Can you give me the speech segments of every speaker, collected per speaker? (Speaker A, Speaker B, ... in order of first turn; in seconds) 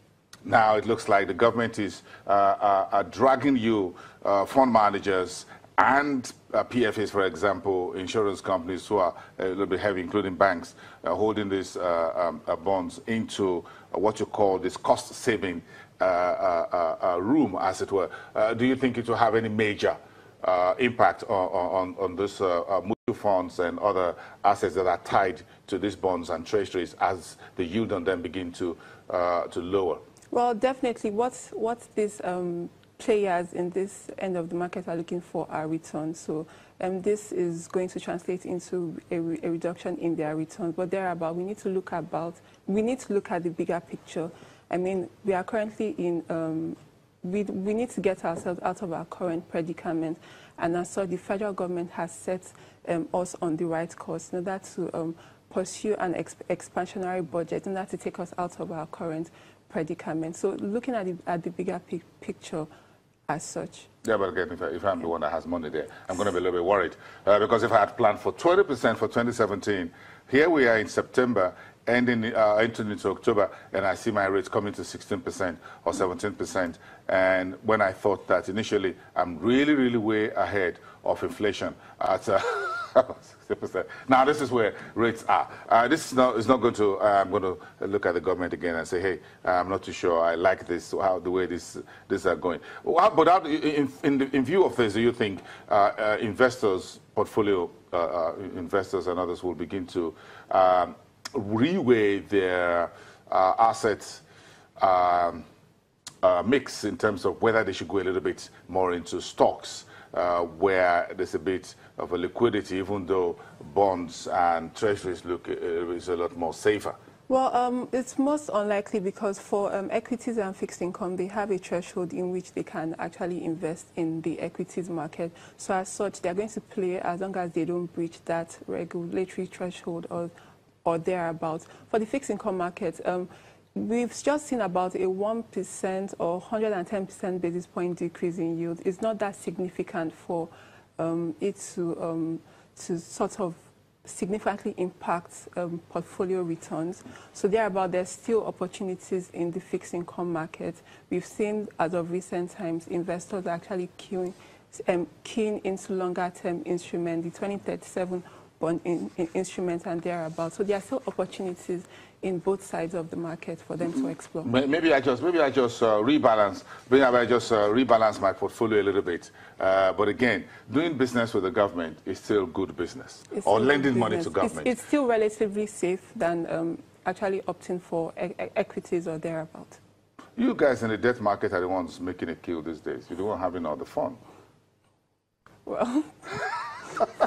Speaker A: 0.4-30.0, 64.0-104.2, 104.8-105.4, 106.2-117.0, 164.4-174.7, 180.3-184.2
Speaker B: 30.3-62.7, 63.3-63.9, 117.3-130.3, 130.8-164.5, 173.3-179.8, 185.7-186.6